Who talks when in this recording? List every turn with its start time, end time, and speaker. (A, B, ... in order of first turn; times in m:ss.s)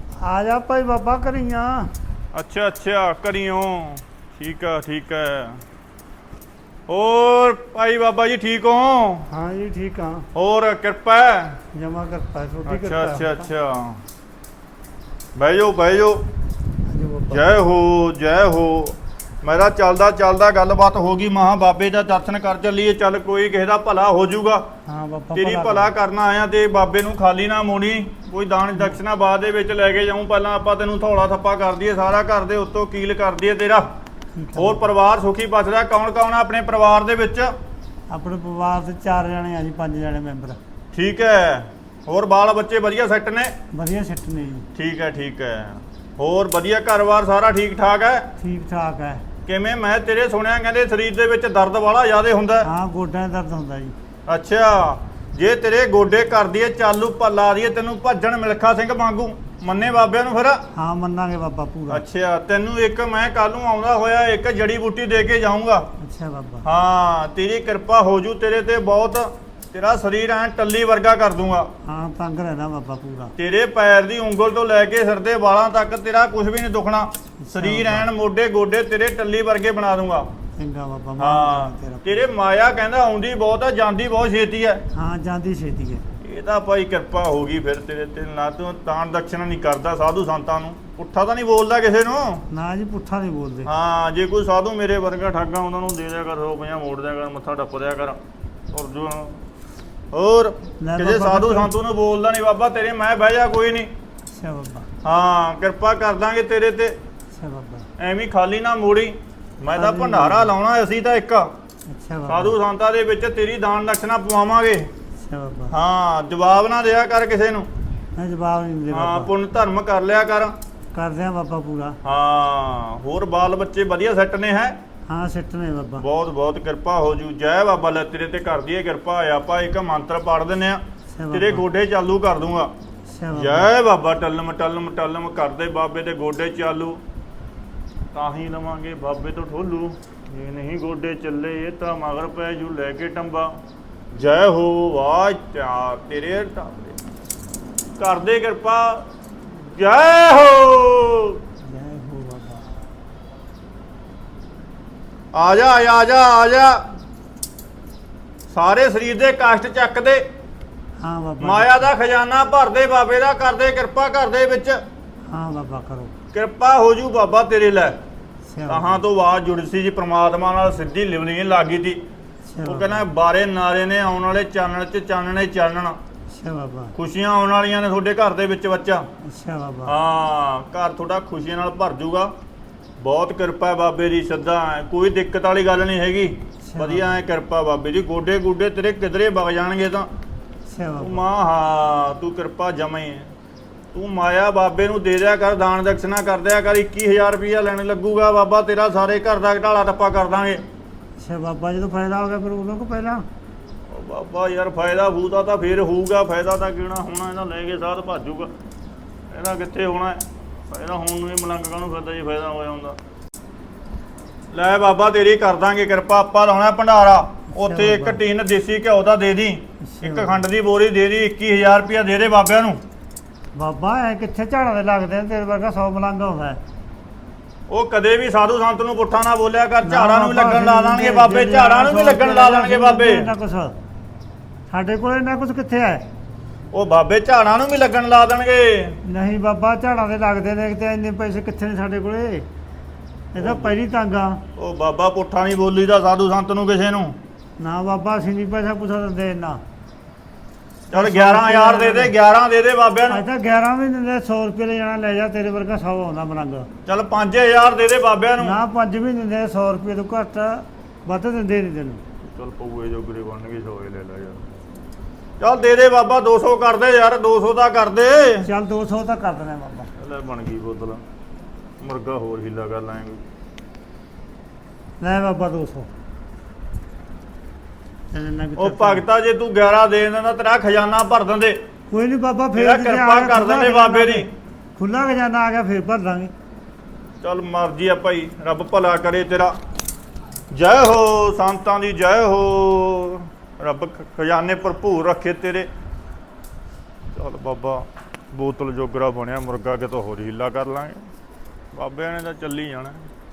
0:00.2-0:01.9 A
0:02.3-0:05.6 B
0:06.9-0:09.3 B
0:09.3-0:10.3 A
0:10.3-0:11.6 B
0:11.7-0:13.5 A
0:12.7-0:14.0 B
0:15.4-0:16.3 B
0:16.9-0:17.5 A
0:17.3-0:24.7 B
0:24.9-0:25.9 A
0:25.3-0:33.9 B
0:34.4-0:34.9 A
0:34.6-0:37.5 B
0:38.1-0:40.6 A
0:40.9-0:43.6 B
0:43.7-0:44.7 A
0:44.7-0:48.3 B
0:48.4-0:49.2 A
0:49.5-0:52.7 B
0:52.6-0:54.0 A
0:54.3-1:00.6 B
1:00.7-1:02.0 A
1:01.9-1:05.9 B
1:06.0-1:06.6 A
1:06.6-1:11.7 B
1:11.8-1:13.3 A
1:13.4-1:20.3 B
1:17.4-1:18.1 A
1:20.6-1:22.3 A
1:21.2-1:24.8 B
1:24.9-1:26.0 A
1:26.2-1:32.4 B
1:32.5-1:33.7 A
1:33.6-1:38.2 B
1:38.7-1:39.4 B
1:40.1-1:43.9 B
1:40.8-1:41.7 A
1:44.3-1:44.9 A
1:45.0-1:47.0 B
1:47.3-1:47.9 A
1:48.0-1:51.5 B
1:49.7-1:50.5 A
1:51.9-1:52.5 A
1:52.3-1:54.9 B
1:55.2-1:55.7 A
1:55.7-1:57.7 B
1:58.2-1:59.3 A
1:58.9-2:00.6 B
2:00.9-2:02.0 A
2:02.0-2:04.8 B
2:05.1-2:06.0 A
2:06.0-2:12.7 B
2:11.1-2:11.6 A
2:13.1-2:13.7 A
2:13.3-2:17.0 B
2:18.1-2:23.6 B
2:24.1-2:27.0 B
2:28.0-2:31.4 B
2:31.6-2:32.7 A
2:35.3-2:36.8 B
2:38.5-2:40.2 B
2:41.0-2:41.9 A
2:41.4-2:44.8 B
2:45.3-2:46.1 A
2:46.3-2:48.0 B
2:48.5-2:49.0 A
2:48.7-2:52.0 B
2:52.5-2:53.1 A
2:52.6-2:56.0 B
2:56.3-2:57.0 A
2:57.0-2:59.1 B
2:59.2-2:59.9 A
2:59.9-3:02.3 B
3:03.0-3:10.1 B
3:06.6-3:07.1 A
3:10.7-3:11.2 A
3:11.0-3:13.3 B
3:13.9-3:20.6 B
3:21.2-3:23.2 A
3:23.9-3:28.5 B
3:29.3-3:33.0 B
3:34.5-3:42.8 B
3:37.5-3:38.2 A
3:39.8-3:40.4 A
3:43.5-3:46.6 A
3:47.7-3:53.3 B
3:49.8-3:53.8 A
3:54.7-3:56.1 A
3:56.7-3:59.0 B
3:59.0-4:02.5 A
4:03.3-4:04.4 A
4:03.4-4:03.7 B
4:04.6-4:07.2 B
4:07.6-4:09.6 A
4:10.9-4:13.2 B
4:10.9-4:12.1 A
4:13.1-4:16.7 A
4:16.9-4:18.6 B
4:18.4-4:22.0 A
4:22.2-4:24.4 B
4:25.4-4:28.5 B
4:28.4-4:29.9 A
4:30.0-4:31.0 B
4:31.8-4:33.2 B
4:35.0-4:35.9 A
4:38.1-4:39.0 A
4:38.6-4:41.6 B
4:41.9-4:46.3 A
4:42.6-4:44.3 B
4:47.2-4:49.6 B
4:50.5-4:55.7 B
4:57.2-5:01.0 B
5:01.7-5:03.0 B